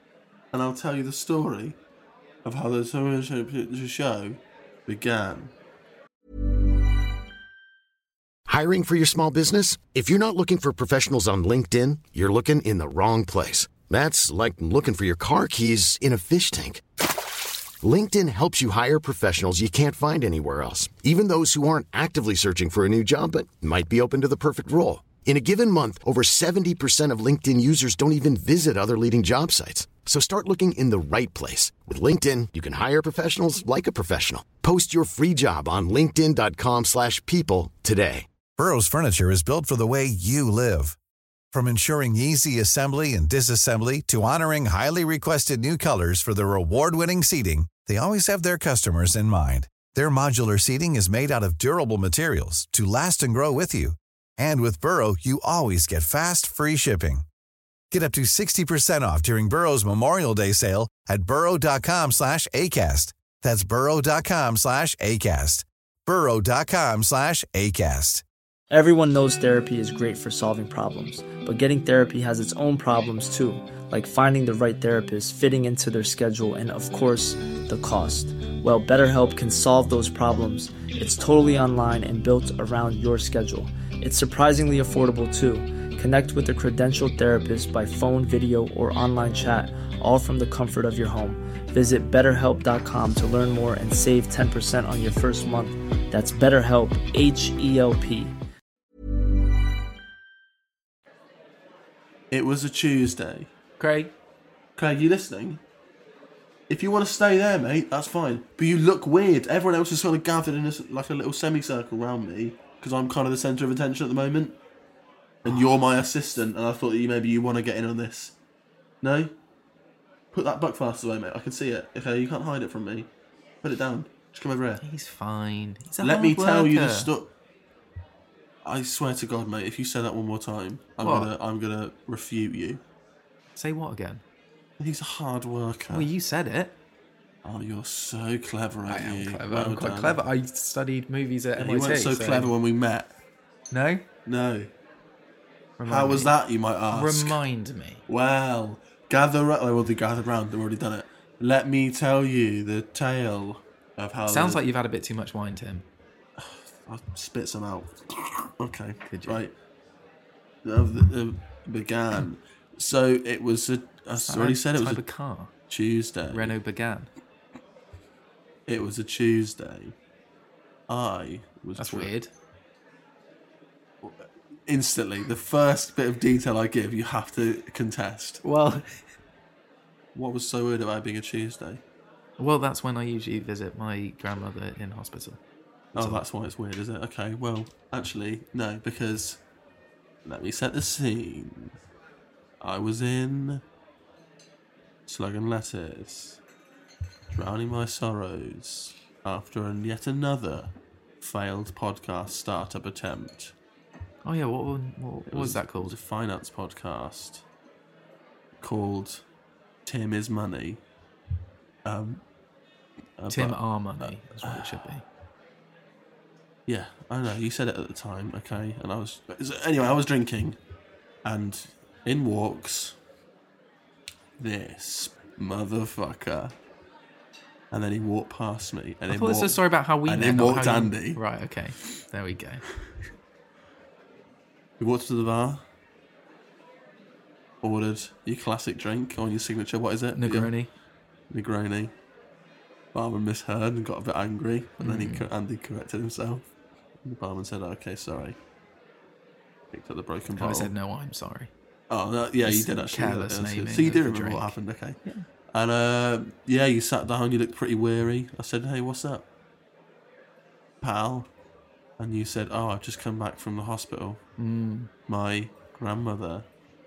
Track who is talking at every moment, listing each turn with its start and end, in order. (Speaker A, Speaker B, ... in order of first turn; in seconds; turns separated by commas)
Speaker A: 0.5-1.8, Speaker A: 2.5-5.5, Speaker B: 8.5-16.8, Speaker B: 17.8-38.3, Speaker C: 38.6-41.0, Speaker C: 41.5-57.2, Speaker C: 57.9-68.2, Speaker D: 68.7-98.3, Speaker A: 102.3-103.5, Speaker E: 103.8-104.1, Speaker A: 104.8-105.6, Speaker A: 106.7-114.6, Speaker A: 115.4-118.3, Speaker A: 119.0-119.3, Speaker A: 120.3-123.1, Speaker A: 123.6-124.8, Speaker E: 124.8-127.1, Speaker A: 126.0-127.3, Speaker A: 128.7-132.8, Speaker E: 131.0-131.3, Speaker E: 133.6-134.2, Speaker A: 134.8-136.1, Speaker E: 135.9-136.8, Speaker A: 137.4-140.2, Speaker E: 138.9-142.5, Speaker A: 141.6-143.1, Speaker E: 143.7-144.1, Speaker A: 144.3-144.7, Speaker E: 145.8-146.3, Speaker A: 145.9-147.4, Speaker E: 146.9-148.0, Speaker A: 148.1-154.6, Speaker E: 154.3-155.8, Speaker A: 156.4-159.5, Speaker E: 159.1-159.4, Speaker A: 160.7-165.0, Speaker E: 164.2-165.5, Speaker A: 165.7-166.6, Speaker E: 166.3-167.1, Speaker A: 168.7-169.9, Speaker A: 170.9-172.1, Speaker E: 171.8-172.3, Speaker A: 174.0-178.4, Speaker E: 178.4-178.9, Speaker A: 180.2-181.8, Speaker E: 182.4-185.4, Speaker A: 185.9-189.4, Speaker E: 186.0-186.2, Speaker A: 190.2-191.8, Speaker A: 192.6-193.6, Speaker A: 195.1-196.4, Speaker A: 197.3-203.6, Speaker E: 204.2-205.9, Speaker A: 205.3-207.4, Speaker A: 208.6-209.2, Speaker A: 209.9-210.8, Speaker A: 211.8-212.2, Speaker A: 213.2-214.9, Speaker E: 213.3-215.0, Speaker A: 216.7-220.6, Speaker A: 221.2-223.0, Speaker A: 224.4-226.5, Speaker A: 227.7-231.2, Speaker E: 229.1-232.6, Speaker A: 234.8-235.6, Speaker A: 237.6-240.5, Speaker E: 240.2-240.7, Speaker A: 241.3-241.9, Speaker A: 242.9-246.5, Speaker E: 244.8-245.3, Speaker A: 247.0-248.4, Speaker A: 249.7-250.7, Speaker E: 250.4-251.5, Speaker A: 251.9-255.0, Speaker E: 252.4-255.2, Speaker A: 255.5-259.3, Speaker A: 260.8-261.3, Speaker A: 262.0-264.2, Speaker E: 264.4-264.9, Speaker A: 265.1-266.5